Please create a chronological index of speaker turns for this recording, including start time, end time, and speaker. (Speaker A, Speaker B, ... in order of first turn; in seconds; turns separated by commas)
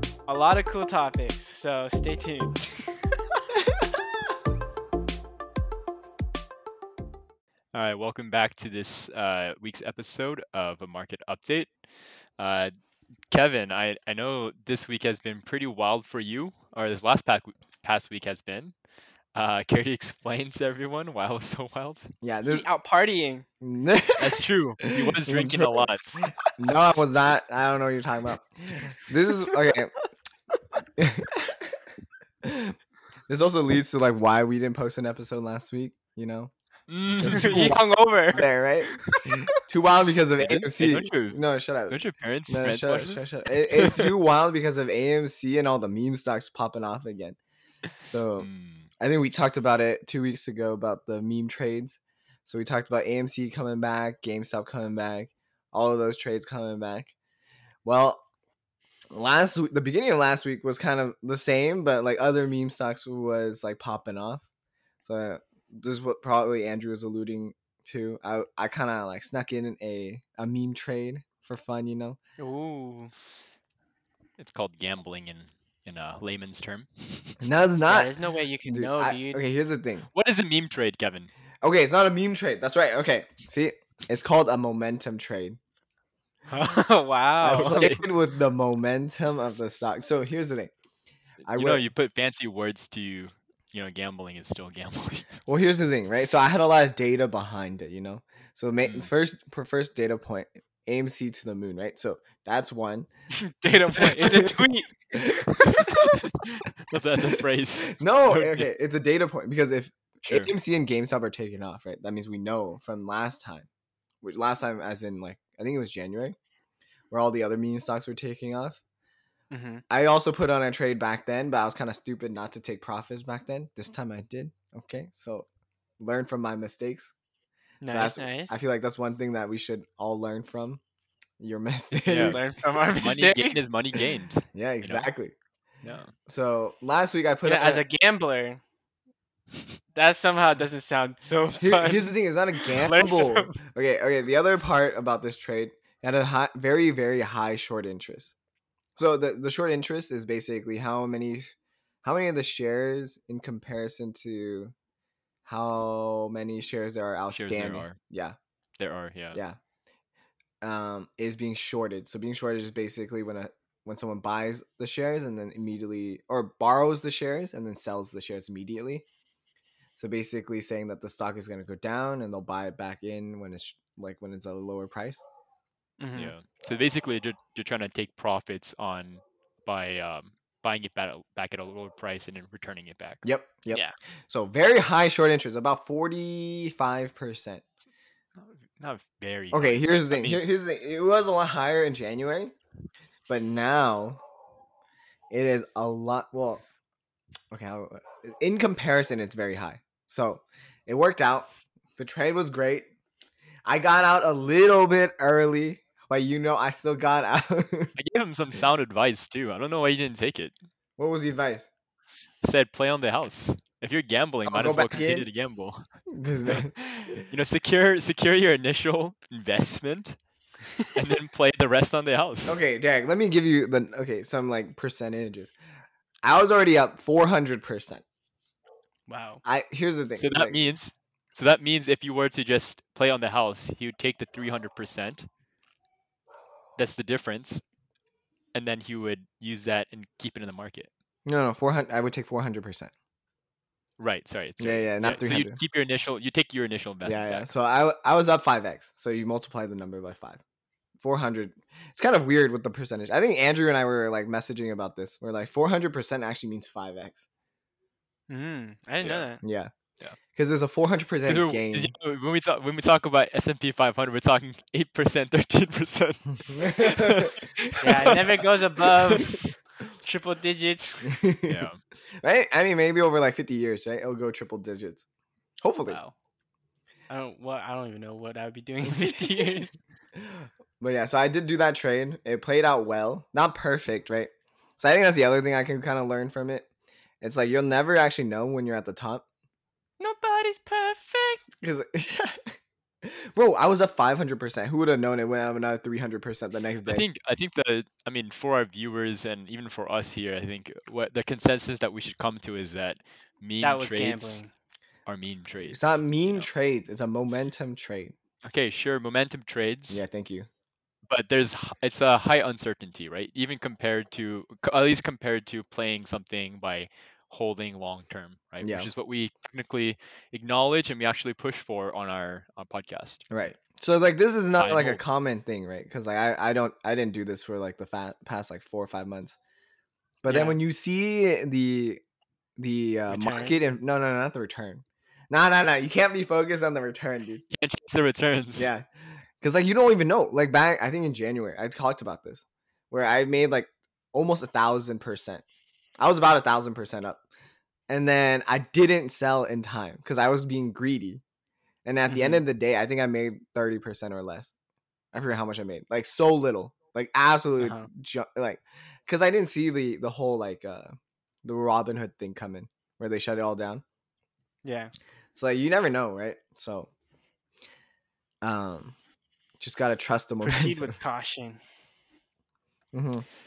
Speaker A: 0.3-3.4, Speaker B: 7.7-11.7, Speaker B: 12.4-12.7, Speaker B: 13.3-18.7, Speaker B: 19.3-22.1, Speaker C: 22.2-22.6, Speaker A: 22.4-23.4, Speaker C: 23.6-25.9, Speaker B: 24.2-26.3, Speaker C: 26.6-29.9, Speaker C: 31.0-31.6, Speaker C: 32.4-32.8, Speaker C: 33.3-36.5, Speaker B: 36.9-37.8, Speaker C: 37.2-47.4, Speaker A: 37.3-38.5, Speaker B: 40.4-44.1, Speaker C: 48.1-48.5, Speaker B: 48.4-48.9, Speaker C: 49.0-57.1, Speaker C: 57.8-58.2, Speaker C: 59.1-64.4, Speaker C: 65.0-72.2, Speaker A: 72.4-73.1, Speaker B: 74.4-77.4, Speaker C: 77.4-78.1, Speaker A: 77.9-79.4, Speaker C: 78.7-80.1, Speaker B: 80.1-81.3, Speaker C: 81.6-85.6, Speaker A: 86.5-87.9, Speaker C: 87.4-90.7, Speaker B: 87.5-88.0, Speaker B: 91.4-95.4, Speaker C: 91.5-91.8, Speaker C: 95.5-103.1, Speaker B: 98.8-99.1, Speaker A: 103.3-106.1, Speaker C: 103.9-106.1, Speaker B: 106.5-108.7, Speaker C: 107.2-113.7, Speaker B: 110.2-110.5, Speaker C: 114.2-116.3, Speaker C: 117.1-118.8, Speaker A: 119.5-119.8, Speaker C: 119.9-125.5, Speaker C: 126.0-127.1, Speaker A: 127.8-128.6, Speaker C: 127.9-130.8, Speaker C: 131.4-132.4, Speaker B: 132.0-135.1, Speaker A: 132.1-133.6, Speaker C: 134.5-135.3, Speaker B: 135.8-136.1, Speaker C: 136.3-137.8, Speaker A: 137.4-138.6, Speaker A: 139.9-143.6, Speaker C: 141.6-148.3, Speaker C: 148.9-154.7, Speaker C: 155.4-158.3, Speaker B: 157.3-158.0, Speaker B: 158.8-159.4, Speaker C: 160.6-169.1, Speaker C: 170.0-175.2, Speaker A: 176.0-176.3, Speaker B: 176.2-183.8, Speaker C: 183.2-187.8, Speaker B: 188.4-190.4, Speaker C: 189.5-192.5, Speaker C: 193.3-194.2, Speaker C: 195.3-196.6, Speaker C: 197.5-202.9, Speaker C: 203.6-207.9, Speaker B: 208.0-210.5, Speaker C: 211.0-211.7, Speaker B: 212.4-215.8, Speaker C: 214.4-215.3, Speaker C: 216.1-217.2, Speaker B: 216.4-220.2, Speaker B: 220.9-222.6, Speaker C: 222.4-225.5, Speaker C: 226.2-228.0, Speaker A: 229.1-229.4, Speaker C: 229.4-230.6, Speaker B: 230.2-235.3, Speaker B: 236.8-237.6, Speaker B: 238.5-240.9, Speaker C: 241.2-242.9, Speaker B: 244.0-247.5, Speaker C: 244.6-245.6, Speaker C: 247.0-250.4, Speaker C: 251.0-257.2, Speaker A: 258.3-259.4, Speaker B: 259.0-259.3, Speaker C: 259.4-259.7, Speaker C: 260.3-261.9, Speaker B: 261.3-268.2, Speaker C: 266.5-268.1, Speaker A: 267.8-269.3, Speaker A: 270.0-271.2, Speaker C: 271.0-271.7, Speaker B: 271.5-271.8, Speaker C: 272.2-275.0, Speaker C: 275.6-276.0, Speaker A: 275.9-276.1, Speaker A: 277.1-279.7, Speaker C: 278.9-279.5, Speaker C: 280.1-286.7, Speaker C: 287.2-289.2, Speaker A: 290.0-291.4, Speaker C: 291.6-297.0, Speaker B: 296.9-304.4, Speaker A: 303.6-304.5, Speaker B: 305.1-306.5, Speaker C: 305.6-308.1, Speaker B: 308.4-310.0, Speaker C: 309.9-310.5, Speaker B: 311.1-323.2, Speaker C: 318.6-318.9, Speaker C: 323.3-329.4, Speaker B: 324.6-325.0, Speaker C: 330.2-332.0, Speaker A: 330.2-330.6, Speaker C: 332.6-337.4, Speaker A: 333.1-333.6, Speaker B: 337.5-338.7, Speaker C: 338.6-338.9, Speaker C: 339.4-345.4, Speaker C: 346.0-347.2, Speaker C: 347.9-351.2, Speaker C: 351.8-354.5, Speaker A: 352.1-352.4, Speaker C: 355.1-363.8, Speaker A: 357.6-357.9, Speaker A: 364.6-364.9, Speaker C: 365.3-366.9, Speaker C: 368.4-368.9, Speaker C: 369.6-370.9, Speaker A: 370.4-371.6, Speaker C: 372.9-373.2